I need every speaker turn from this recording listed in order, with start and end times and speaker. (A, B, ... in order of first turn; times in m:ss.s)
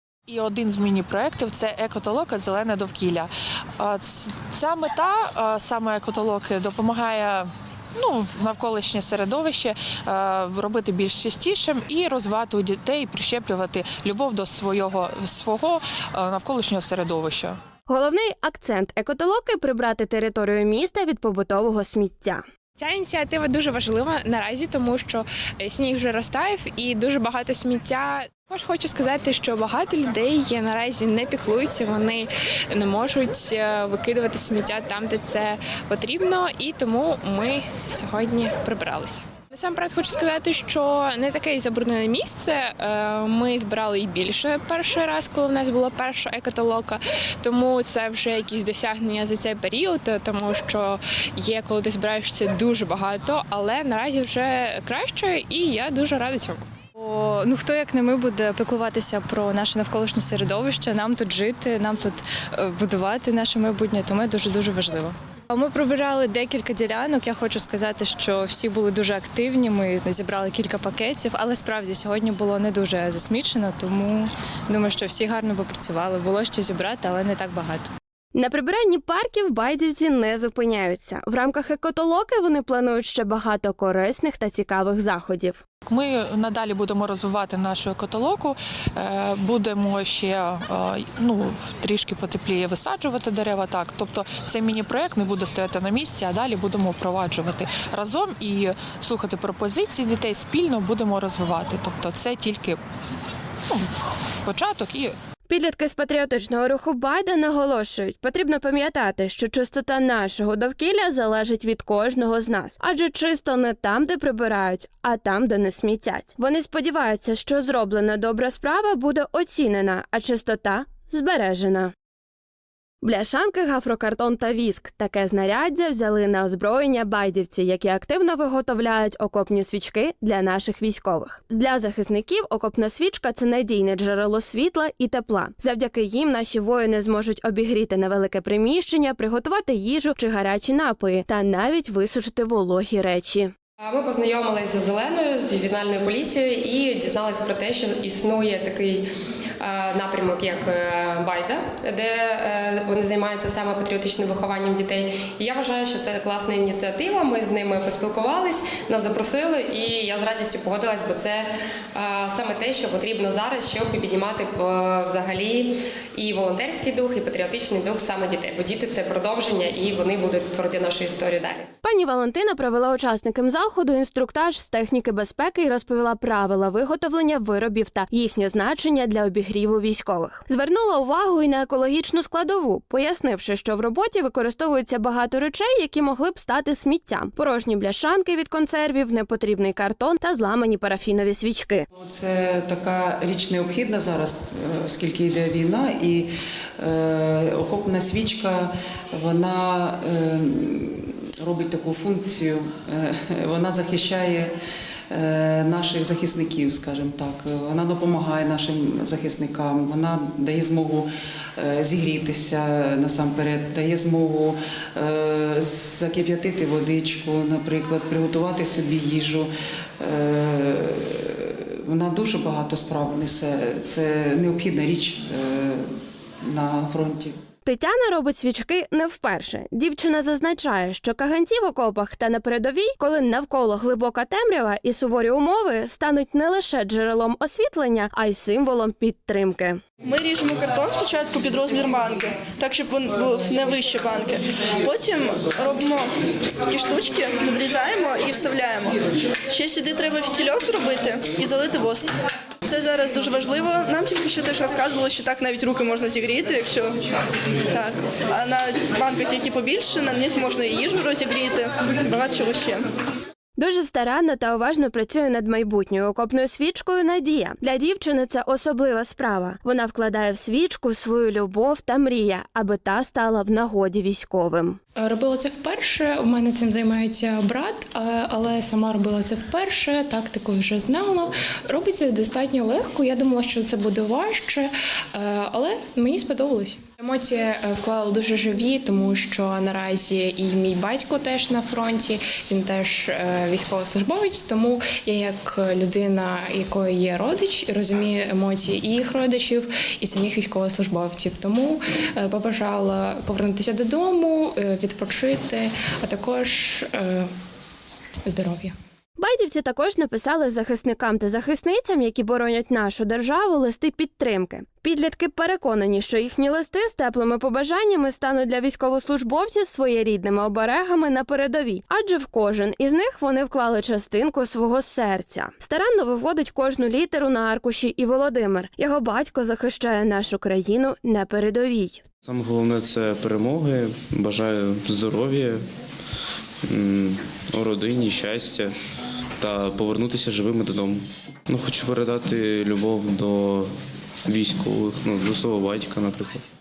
0:00.3-0:17.6 A
0:17.9-0:22.4 B
0:22.8-0:56.6 C
0:57.0-1:17.9 D
1:18.3-1:25.6 B
1:25.8-1:42.8 A
1:44.4-1:45.2 A
1:45.5-2:01.9 B
2:03.0-2:23.5 B
2:23.8-2:29.1 E
2:29.6-2:51.7 E
2:51.8-3:11.8 B
3:12.0-3:24.5 F
3:25.1-3:45.8 F
3:46.4-3:47.3 F
3:47.6-3:59.8 B
4:00.0-4:06.1 G
4:06.7-4:09.0 G
4:09.5-4:12.1 G
4:12.6-4:17.0 G
4:17.7-4:22.9 G
4:23.6-4:34.8 B
4:35.0-5:07.3 C
5:08.2-5:08.7 C
5:09.2-5:32.0 B
5:32.2-5:35.6 H
5:36.6-5:38.7 H
5:39.4-5:43.7 H
5:44.3-5:46.4 H